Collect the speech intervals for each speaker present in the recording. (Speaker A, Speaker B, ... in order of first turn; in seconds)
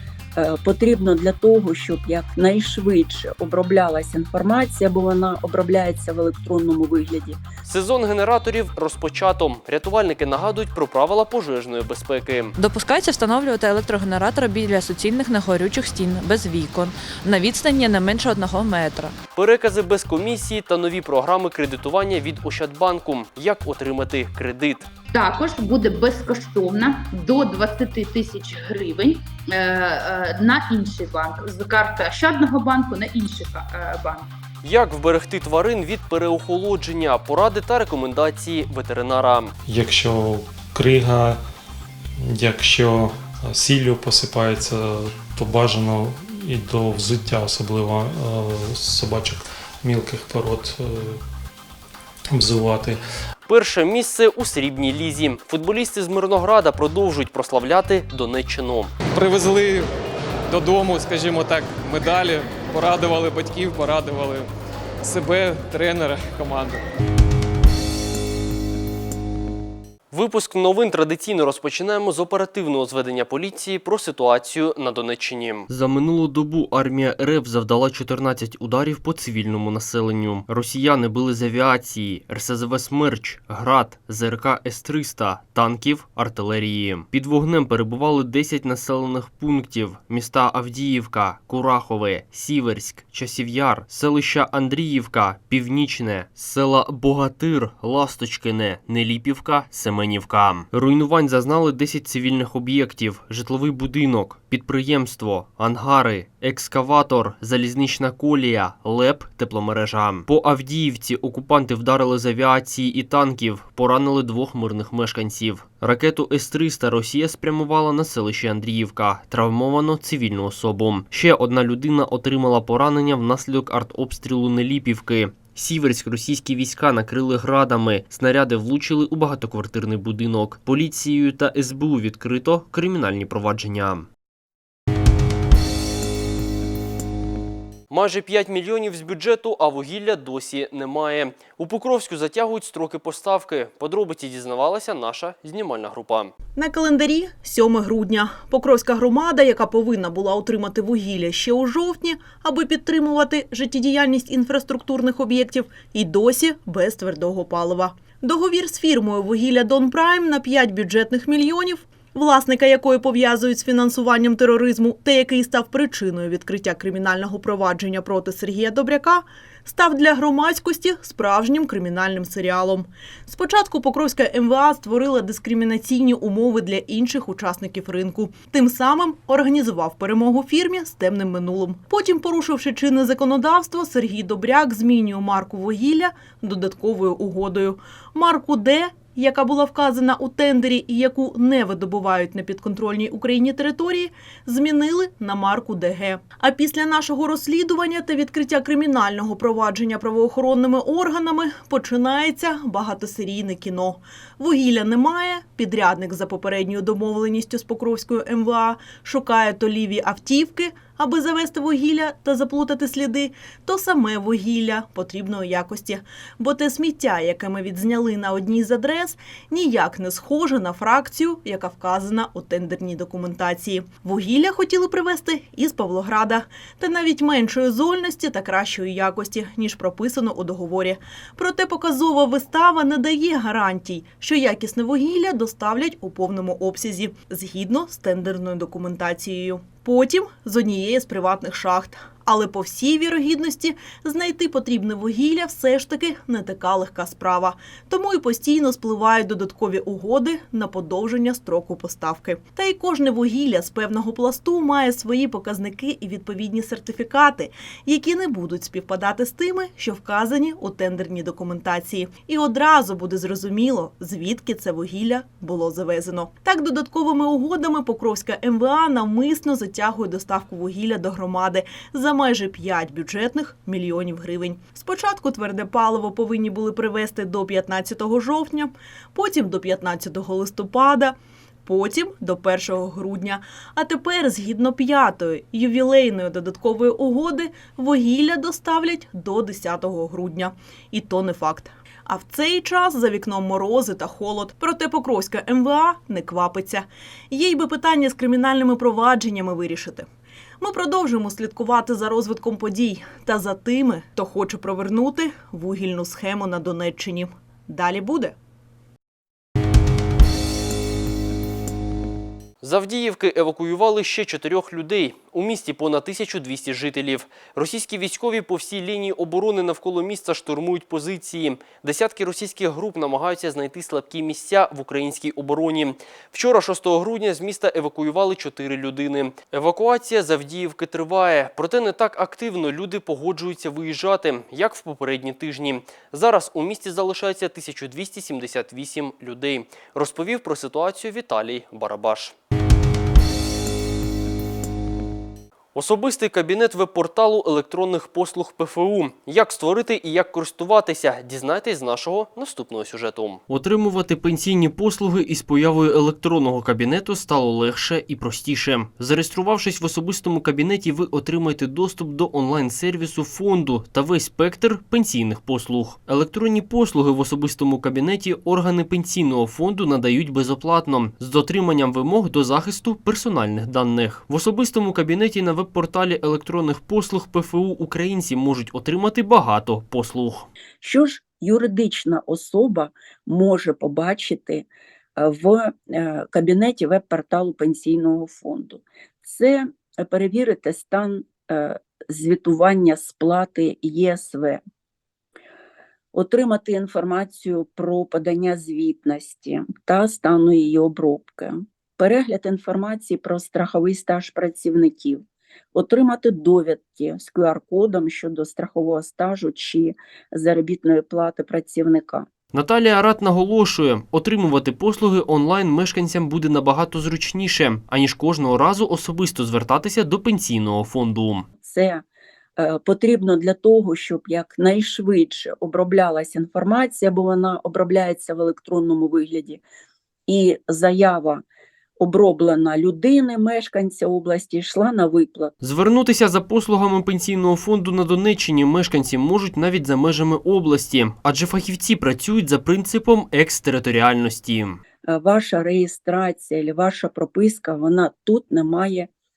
Speaker A: 0.4-7.4, 380.8-394.6, 396.1-405.2, 405.7-412.3, 421.6-422.0, 422.6-429.6, 430.3-431.4, 432.0-435.5, 445.1-449.1
Speaker B: 7.7-12.6, 19.4-24.9, 34.6-39.5, 53.5-58.9, 70.1-134.1, 137.9-146.3, 312.6-342.3, 345.8-380.5, 412.5-421.5, 435.6-444.8
Speaker C: 12.6-19.1
Speaker D: 25.1-34.3
Speaker E: 39.7-41.4, 42.2-51.2, 52.3-53.0
Speaker F: 59.1-59.9, 60.5-64.5, 65.0-66.8
Speaker G: 146.6-300.1, 300.6-308.4